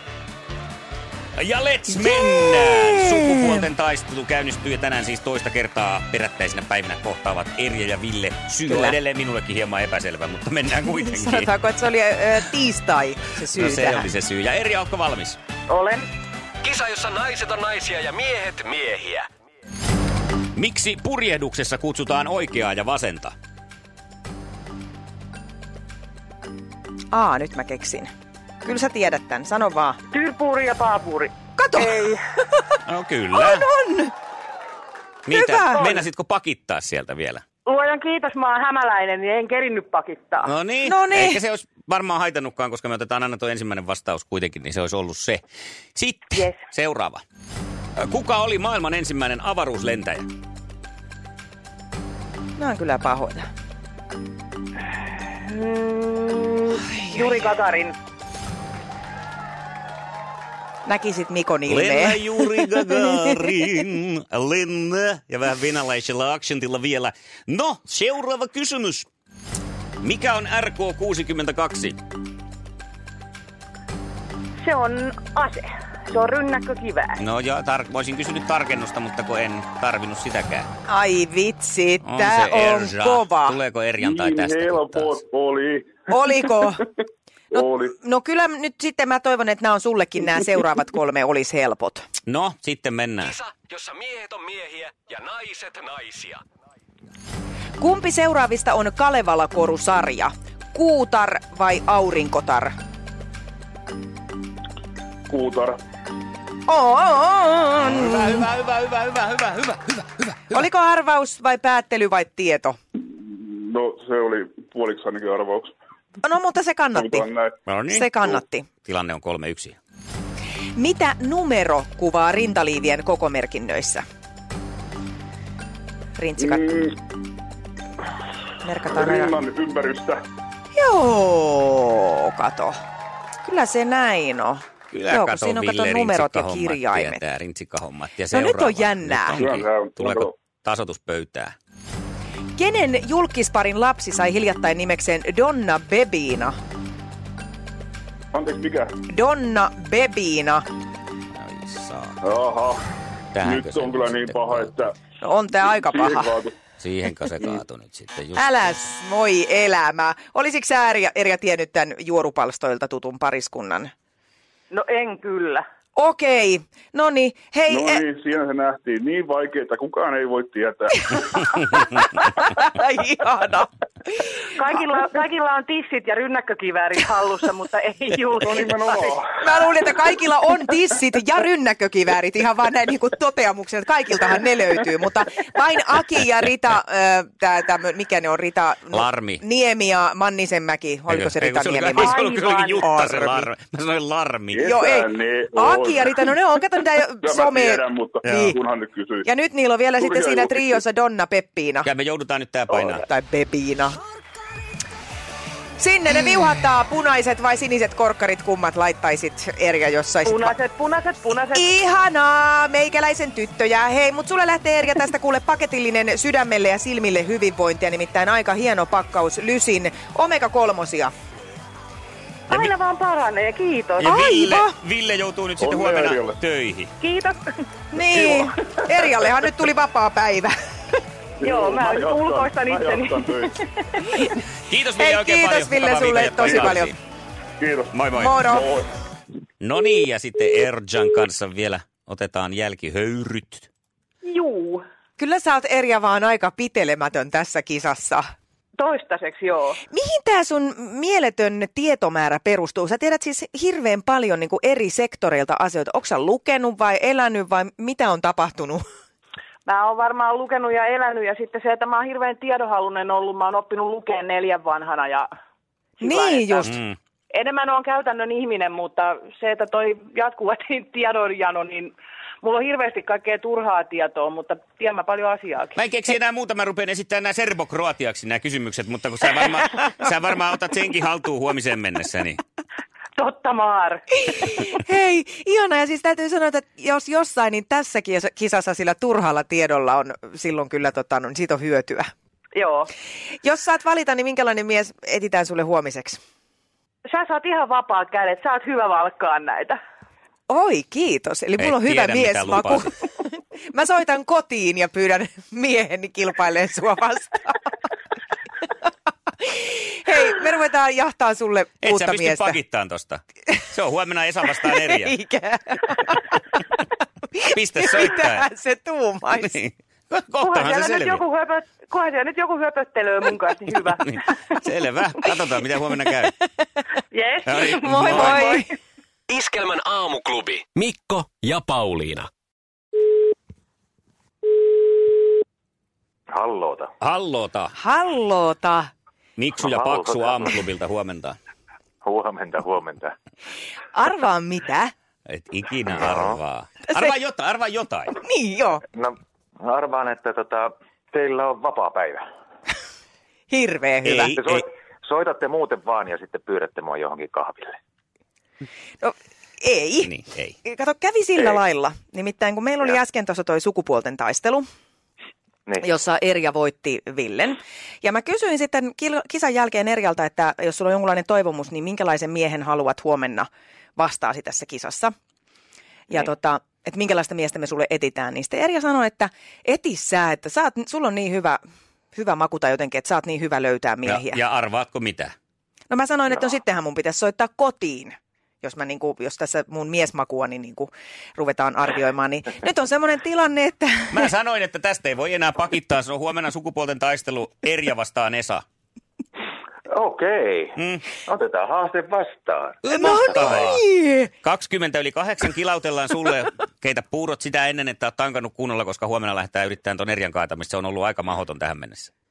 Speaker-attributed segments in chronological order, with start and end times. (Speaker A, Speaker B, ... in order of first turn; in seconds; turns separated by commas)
Speaker A: 1.3-11.5, Speaker B: 1.9-3.6, Speaker B: 8.7-8.9, Speaker B: 11.0-14.1, Speaker A: 13.5-15.4, Speaker C: 15.7-16.0, Speaker D: 16.6-19.3, Speaker A: 20.5-23.3, Speaker B: 27.1-28.1, Speaker B: 28.6-30.0, Speaker C: 30.1-32.2, Speaker B: 31.6-32.0, Speaker B: 32.5-32.8, Speaker A: 32.9-33.7, Speaker B: 33.3-34.1, Speaker A: 35.2-37.4, Speaker B: 35.3-36.0, Speaker C: 37.6-40.5, Speaker A: 40.4-45.4, Speaker B: 40.8-41.4, Speaker A: 45.9-47.2, Speaker A: 48.0-50.3, Speaker B: 52.6-53.5, Speaker C: 55.3-57.9, Speaker B: 56.8-57.4, Speaker B: 60.9-63.4, Speaker A: 61.7-69.1, Speaker A: 70.0-72.0, Speaker C: 74.6-77.2, Speaker A: 77.2-80.7, Speaker B: 80.9-83.6, Speaker A: 82.0-85.2, Speaker E: 84.0-86.7, Speaker B: 86.1-86.8, Speaker E: 87.5-88.0, Speaker B: 87.5-92.0, Speaker A: 92.2-93.3, Speaker D: 93.2-96.4, Speaker B: 97.8-102.7, Speaker E: 105.3-105.8, Speaker B: 106.7-108.5, Speaker A: 107.8-110.6, Speaker B: 110.5-112.8, Speaker E: 113.0-115.7, Speaker B: 116.2-117.3, Speaker E: 116.9-117.6, Speaker A: 117.7-118.1, Speaker B: 117.9-118.7, Speaker A: 118.8-119.8, Speaker B: 120.8-124.0, Speaker B: 126.2-126.9, Speaker E: 126.4-126.9, Speaker B: 128.6-129.3, Speaker E: 128.9-130.2, Speaker B: 130.8-132.8, Speaker B: 133.4-137.2, Speaker A: 134.9-141.6, Speaker B: 138.3-139.4, Speaker E: 139.4-140.3, Speaker B: 142.6-146.6, Speaker E: 148.3-148.9, Speaker B: 149.1-150.6, Speaker A: 151.3-152.2, Speaker E: 152.2-152.8, Speaker A: 153.3-154.8, Speaker E: 153.4-154.9, Speaker B: 155.2-156.4, Speaker E: 155.6-156.5, Speaker A: 156.8-158.8, Speaker B: 158.3-163.9, Speaker C: 164.7-165.6, Speaker B: 165.9-168.0, Speaker E: 167.7-171.8, Speaker B: 171.6-173.7, Speaker C: 174.5-179.1, Speaker E: 178.4-179.4, Speaker B: 179.4-192.2, Speaker A: 188.9-189.4, Speaker A: 191.1-194.8, Speaker C: 191.9-192.9, Speaker B: 192.8-193.5, Speaker E: 194.5-196.3, Speaker B: 194.6-198.6, Speaker E: 197.2-199.3, Speaker A: 198.2-198.5, Speaker B: 199.2-201.9, Speaker E: 200.0-200.8, Speaker A: 201.8-203.0, Speaker B: 203.0-204.0, Speaker B: 205.8-210.6, Speaker C: 210.2-211.7, Speaker B: 211.5-221.1, Speaker C: 222.5-224.1, Speaker A: 224.0-226.9, Speaker B: 224.0-224.8, Speaker E: 225.6-226.4, Speaker C: 227.0-227.6, Speaker B: 227.9-230.5, Speaker E: 228.0-228.5, Speaker E: 231.4-233.6, Speaker C: 231.4-233.7, Speaker A: 234.7-236.9, Speaker B: 235.0-236.9, Speaker E: 236.4-236.8, Speaker E: 237.6-238.9, Speaker A: 237.9-238.4, Speaker B: 238.1-238.7, Speaker A: 239.6-243.7, Speaker C: 244.2-244.8, Speaker B: 245.2-248.3, Speaker C: 248.8-249.8, Speaker B: 249.9-258.8, Speaker C: 259.6-265.3, Speaker C: 266.0-266.7, Speaker B: 266.0-266.7, Speaker A: 266.6-266.9, Speaker C: 267.3-275.8, Speaker A: 275.8-282.4, Speaker C: 283.2-284.5, Speaker B: 284.3-292.1, Speaker C: 292.5-292.9, Speaker B: 293.4-296.2, Speaker C: 297.1-299.8, Speaker B: 300.5-307.7, Speaker A: 301.6-302.9, Speaker B: 309.4-312.6, Speaker A: 311.8-315.1, Speaker B: 314.6-316.3, Speaker B: 317.4-319.6, Speaker A: 317.5-318.5, Speaker A: 319.4-321.2, Speaker C: 320.4-324.2, Speaker A: 324.0-326.3, Speaker C: 327.1-328.7, Speaker A: 327.4-328.5, Speaker B: 327.7-328.7, Speaker D: 329.3-332.3, Speaker F: 336.3-336.9, Speaker A: 337.0-337.7, Speaker B: 337.7-338.9, Speaker A: 339.4-341.4, Speaker F: 339.6-340.5, Speaker F: 342.0-343.1, Speaker B: 343.9-344.9, Speaker A: 345.2-348.2, Speaker F: 346.0-346.4, Speaker B: 346.9-347.1, Speaker B: 348.2-348.8, Speaker F: 348.9-352.2, Speaker B: 353.5-354.4, Speaker A: 354.0-354.6, Speaker F: 354.3-357.8, Speaker B: 359.0-360.1, Speaker A: 360.0-360.6, Speaker B: 360.6-364.6, Speaker B: 365.8-375.1, Speaker B: 376.1-381.6, Speaker B: 382.1-384.4, Speaker A: 384.0-385.3, Speaker B: 385.9-394.3, Speaker A: 394.1-398.6, Speaker F: 399.9-402.8, Speaker A: 400.8-401.0, Speaker A: 402.8-403.8, Speaker B: 402.9-404.3, Speaker A: 404.4-412.1